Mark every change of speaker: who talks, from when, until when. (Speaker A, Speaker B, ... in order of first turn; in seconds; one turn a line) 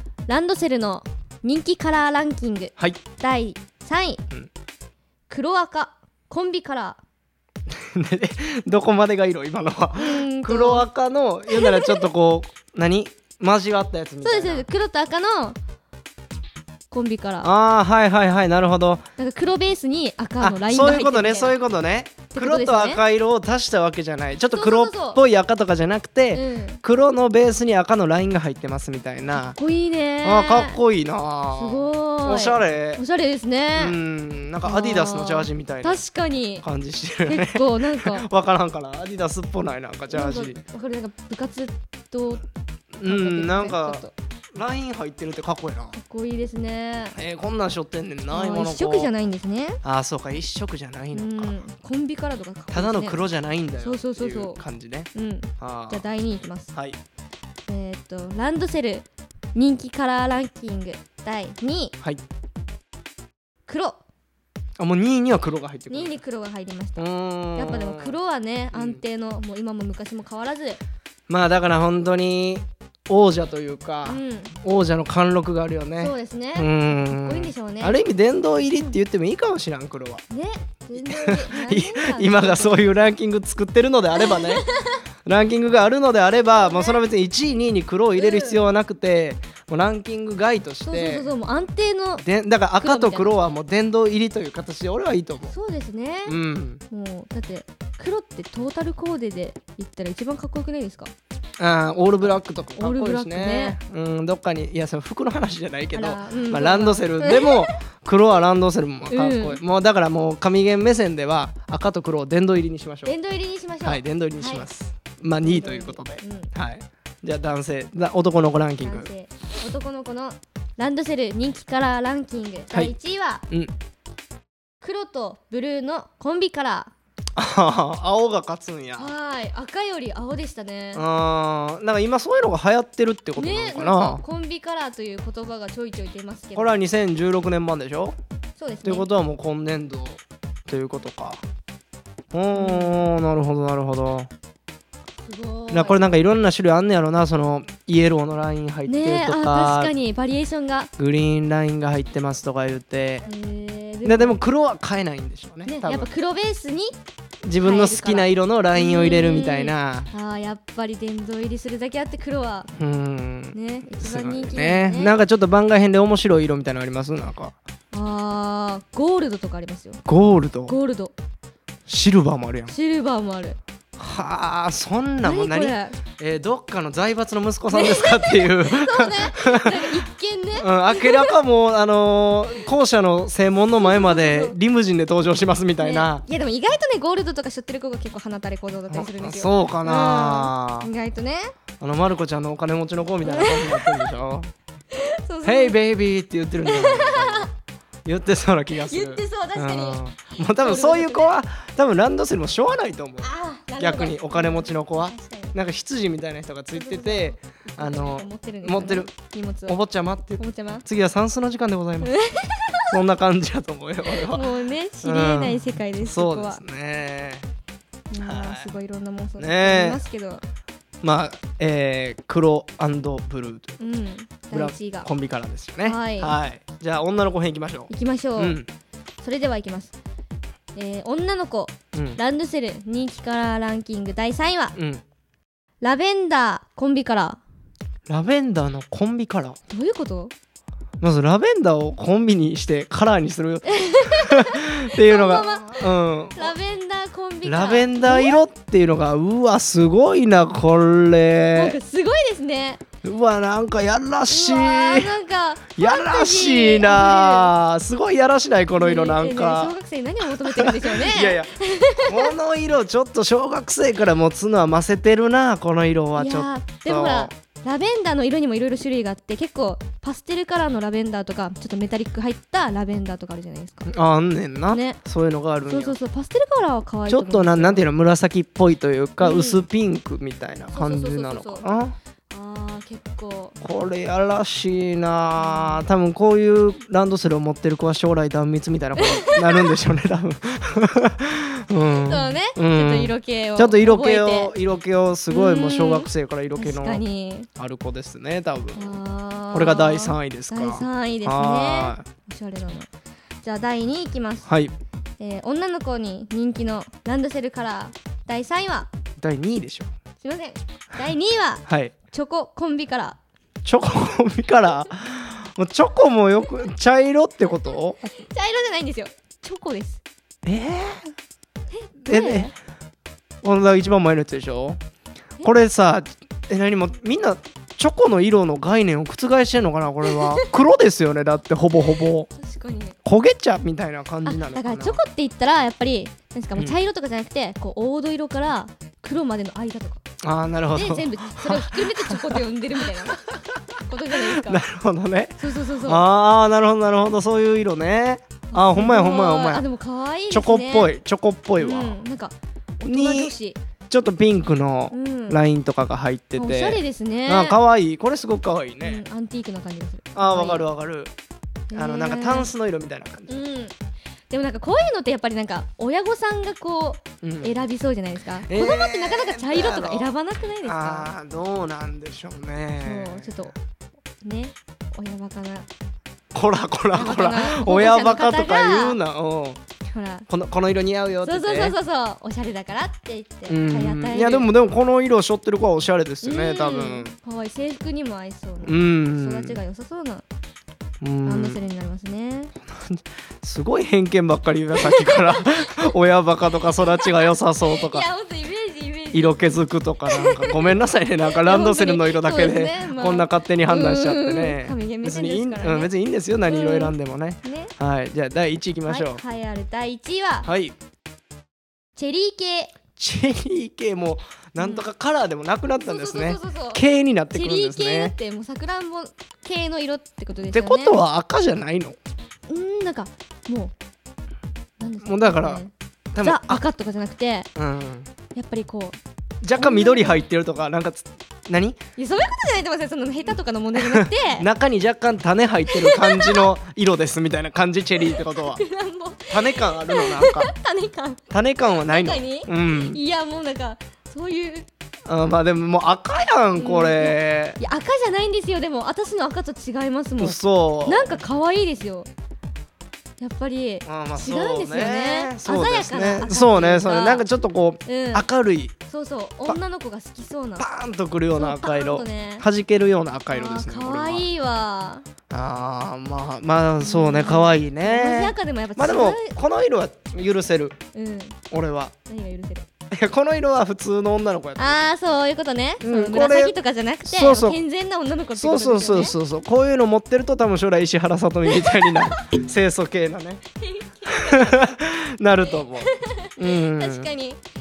Speaker A: 0.3-4.2
Speaker A: 5.3-7.0
Speaker B: 7.7-14.7
Speaker A: 10.0-10.8
Speaker A: 11.5-12.0
Speaker A: 14.2-15.6
Speaker A: 16.9-17.5
Speaker B: 17.4-19.0
Speaker A: 19.2-21.6
Speaker B: 20.4-29.6
Speaker A: 22.3-23.0
Speaker A: 24.5-25.2
Speaker A: 26.3-26.8
Speaker A: 29.5-30.8
Speaker B: 30.2-33.0
Speaker A: 31.5-34.0
Speaker B: 33.7-36.0
Speaker A: 34.6-36.6
Speaker B: 36.6-40.6
Speaker A: 37.2-38.2
Speaker A: 40.1-42.4
Speaker B: 43.0-46.0
Speaker A: 43.0-44.1
Speaker A: 45.9-47.2
Speaker B: 47.1-49.1
Speaker A: 48.3-49.8
Speaker B: 49.8-51.6
Speaker A: 51.1-53.2
Speaker B: 52.7-56.1
Speaker A: 53.8-54.6
Speaker A: 55.1-56.7
Speaker B: 56.7-57.0
Speaker A: 57.7-61.9
Speaker A: 63.7-64.0
Speaker B: 64.8-66.2
Speaker A: 65.9-70.8
Speaker B: 67.0-68.2
Speaker B: 68.7-69.0
Speaker B: 71.3-80.2
Speaker A: 74.0-74.5
Speaker A: 76.0-78.0
Speaker A: 80.3-83.1
Speaker B: 81.0-84.7
Speaker A: 84.2-85.0
Speaker B: 85.2-91.3
Speaker A: 86.5-87.0
Speaker A: 88.2-88.6
Speaker A: 90.8-92.2
Speaker B: 92.2-95.5
Speaker A: 92.8-93.3
Speaker A: 95.5-96.3
Speaker B: 96.2-96.8
Speaker A: 96.9-101.1
Speaker B: 101.6-113.1
Speaker A: 102.2-103.8
Speaker A: 105.9-107.7
Speaker A: 109.1-109.6
Speaker A: 113.0-114.7
Speaker B: 113.8-119.1
Speaker A: 115.4-116.5
Speaker A: 118.8-123.4
Speaker A: 124.8-126.9
Speaker B: 127.3-129.1
Speaker A: 129.0-131.0
Speaker B: 130.9-134.2
Speaker A: 133.4-136.8
Speaker B: 136.5-138.2
Speaker A: 138.6-139.1
Speaker B: 138.8-141.4
Speaker B: 142.3-144.3
Speaker A: 142.5-143.1
Speaker A: 145.2-146.1
Speaker B: 145.7-149.9
Speaker A: 148.9-150.9
Speaker B: 151.0-153.3
Speaker A: 153.2-154.4
Speaker B: 154.0-156.1
Speaker A: 155.7-156.9
Speaker B: 157.4-160.1
Speaker A: 157.6-162.7
Speaker B: 162.8-167.5
Speaker A: 163.5-165.2
Speaker A: 167.9-170.0
Speaker B: 170.1-170.8
Speaker A: 170.7-171.1
Speaker B: 171.9-172.7
Speaker A: 172.7-173.6
Speaker B: 174.0-180.0
Speaker A: 175.2-176.0
Speaker A: 177.7-181.3
Speaker B: 180.6-186.2
Speaker A: 183.8-184.6
Speaker A: 185.8-191.5
Speaker B: 188.9-190.9
Speaker B: 191.8-194.5
Speaker A: 193.2-194.1
Speaker A: 194.9-195.8
Speaker B: 195.4-197.5
Speaker A: 196.7-197.5
Speaker B: 198.0-209.1
Speaker A: 198.7-200.0
Speaker A: 200.6-201.3
Speaker A: 203.2-205.5
Speaker A: 206.7-209.8
Speaker B: 209.7-212.1
Speaker A: 210.4-210.8
Speaker A: 212.0-213.0
Speaker B: 212.9-214.5
Speaker A: 214.1-216.6
Speaker B: 215.0-217.5
Speaker A: 218.1-220.4
Speaker B: 218.2-218.8
Speaker B: 219.4-220.0
Speaker B: 221.0-223.8
Speaker A: 223.8-225.1
Speaker B: 224.5-228.7
Speaker A: 225.8-226.3
Speaker A: 227.9-228.6
Speaker A: 229.2-229.9
Speaker A: 230.7-234.8
Speaker B: 231.9-232.2
Speaker B: 234.7-235.0
Speaker A: 235.8-237.4
Speaker B: 238.1-239.6
Speaker A: 239.7-240.3
Speaker B: 241.0-246.6
Speaker A: 243.7-248.4
Speaker B: 247.4-251.8
Speaker A: 251.6-252.8
Speaker B: 253.0-255.2
Speaker A: 254.3-257.5
Speaker B: 255.8-259.8
Speaker A: 258.7-262.3
Speaker B: 260.3-267.3
Speaker A: 266.1-273.9
Speaker B: 273.9-276.0
Speaker A: 274.7-275.0
Speaker A: 275.7-277.8
Speaker B: 277.1-281.9
Speaker A: 279.2-279.6
Speaker A: 280.7-281.7
Speaker A: 282.3-283.6
Speaker B: 283.6-297.0
Speaker A: 285.4-285.8
Speaker A: 289.0-289.7
Speaker A: 291.8-294.5
Speaker A: 295.3-297.5
Speaker B: 297.6-299.0
Speaker A: 298.7-302.9
Speaker B: 299.5-302.1
Speaker A: 303.4-304.5
Speaker B: 304.5-304.7
Speaker A: 305.2-308.9
Speaker B: 309.2-309.9
Speaker A: 310.2-313.2
Speaker B: 311.7-311.9
Speaker B: 313.6-318.1
Speaker A: 318.3-320.0
Speaker B: 320.4-321.1
Speaker A: 321.7-322.5
Speaker B: 322.0-322.5
Speaker B: 323.4-324.8
Speaker B: 325.4-332.3
Speaker A: 330.0-330.4
Speaker A: 332.3-332.9
Speaker B: 333.0-335.0
Speaker A: 334.2-340.0
Speaker B: 340.2-343.2
Speaker A: 340.7-343.3
Speaker A: 343.8-344.6
Speaker B: 344.1-349.6
Speaker A: 345.4-346.0
Speaker A: 348.5-350.9
Speaker B: 350.3-352.0
Speaker A: 351.6-353.6
Speaker B: 352.8-353.3
Speaker B: 353.9-359.0
Speaker A: 354.9-355.4
Speaker A: 356.4-357.6
Speaker A: 358.8-360.7
Speaker B: 360.1-361.1
Speaker A: 361.7-362.5
Speaker B: 361.7-363.4
Speaker A: 363.3-363.7
Speaker A: 364.3-371.1
Speaker B: 367.2-367.6
Speaker B: 368.5-373.5
Speaker A: 372.8-373.5
Speaker A: 374.2-375.7
Speaker B: 376.3-379.6
Speaker A: 376.9-379.0
Speaker A: 379.9-380.3
Speaker B: 380.3-381.8
Speaker A: 381.2-384.5
Speaker B: 383.5-387.1
Speaker A: 386.2-390.2
Speaker B: 388.6-389.6
Speaker B: 391.0-391.6
Speaker A: 391.2-392.5
Speaker B: 392.7-398.1
Speaker A: 394.8-395.9
Speaker A: 396.8-399.5
Speaker B: 399.1-409.2
Speaker A: 400.1-400.7
Speaker A: 401.3-405.9
Speaker A: 406.4-407.7
Speaker A: 408.9-410.5
Speaker B: 410.4-410.7
Speaker A: 411.9-412.7
Speaker B: 412.9-418.1
Speaker A: 414.6-414.9
Speaker A: 415.8-416.8
Speaker A: 417.3-421.0
Speaker B: 420.5-422.0
Speaker A: 422.5-423.7
Speaker A: 424.8-427.5
Speaker B: 425.0-425.6
Speaker B: 426.1-426.6
Speaker B: 427.6-428.1
Speaker A: 428.3-429.0
Speaker B: 429.4-431.8
Speaker A: 429.5-430.2
Speaker A: 431.9-434.4
Speaker B: 433.8-438.6
Speaker A: 435.7-436.5
Speaker A: 438.0-441.2
Speaker B: 439.3-440.5
Speaker B: 441.3-443.0
Speaker A: 441.8-444.6
Speaker B: 445.1-447.6
Speaker A: 446.6-452.1
Speaker B: 450.2-451.2
Speaker A: 453.2-457.2
Speaker B: 453.9-458.7
Speaker A: 457.9-458.2
Speaker A: 458.9-460.6
Speaker B: 460.6-464.3
Speaker A: 461.3-462.4
Speaker A: 463.3-465.0
Speaker B: 465.3-470.8
Speaker A: 466.8-469.3
Speaker A: 470.9-471.4
Speaker B: 471.5-471.9
Speaker A: 472.1-472.6
Speaker B: 472.9-474.8
Speaker A: 474.6-479.1
Speaker B: 475.8-477.6
Speaker B: 478.4-483.4
Speaker A: 481.5-482.0
Speaker A: 483.6-484.8
Speaker B: 484.1-487.1
Speaker A: 485.8-487.4